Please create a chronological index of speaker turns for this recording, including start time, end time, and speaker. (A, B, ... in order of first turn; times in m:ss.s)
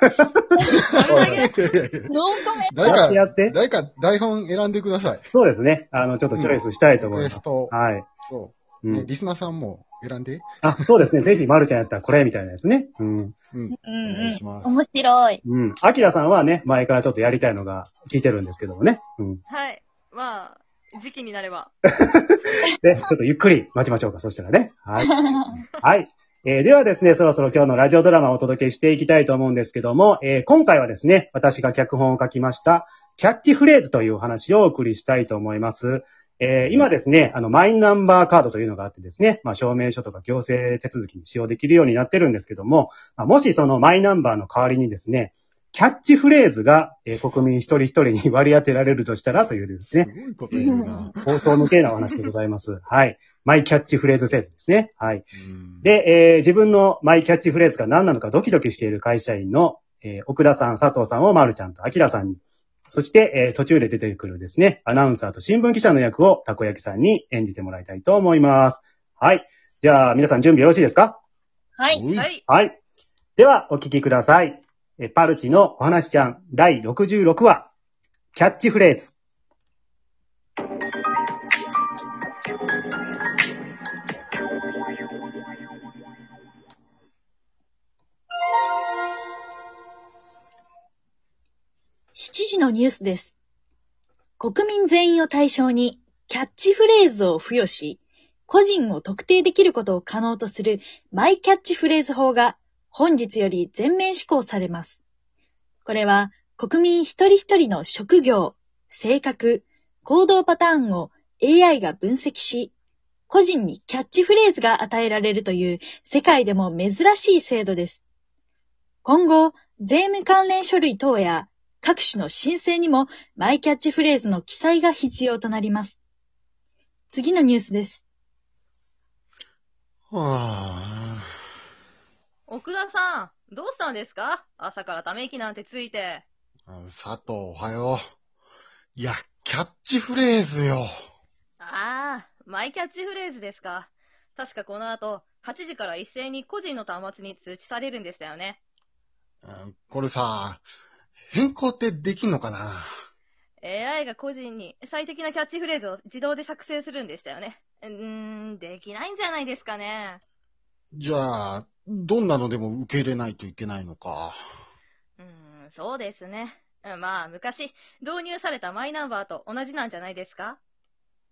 0:00.7-0:01.4 A
0:00.7-0:02.1 B
0:01.0-0:01.5 C
0:01.1-0:01.5 D
0:02.1-0:03.0 A
0:02.7-0:05.3 B
0:02.8-0:03.6 D
0:05.3-0:08.1 D
0:06.3-0:10.5 B
0:08.8-0:09.1 D
0:10.6-0:13.4 D
0:13.5-0:14.8 B
0:13.7-0:15.4 A
0:15.4-0:19.4 D
0:19.5-0:21.7 C
0:22.0-0:55.3 D
0:25.0-0:25.4 A
0:49.8-0:51.4 B
0:50.5-0:51.1 A
0:55.4-0:55.9 B
0:55.8-1:11.2 D
1:11.8-1:12.1 A
1:11.9-1:12.3 B
1:12.2-1:12.4 C
1:12.5-1:12.8 D
1:13.4-1:17.7 D
1:18.3-1:19.1 D
1:32.2-1:33.3 A
1:34.4-1:45.0 A
1:45.8-1:52.7 A
1:53.3-1:58.0 A
1:59.0-2:06.0 A
2:07.1-2:08.0 A
2:10.1-2:11.3 B
2:12.5-2:16.2 C
2:16.7-2:18.0 B
2:19.0-2:20.9 B
2:21.6-2:28.6 C
2:29.4-2:30.6 B
2:31.3-2:32.9 B
2:33.6-2:40.2 C
2:40.9-2:44.4 B
2:45.2-2:50.6 C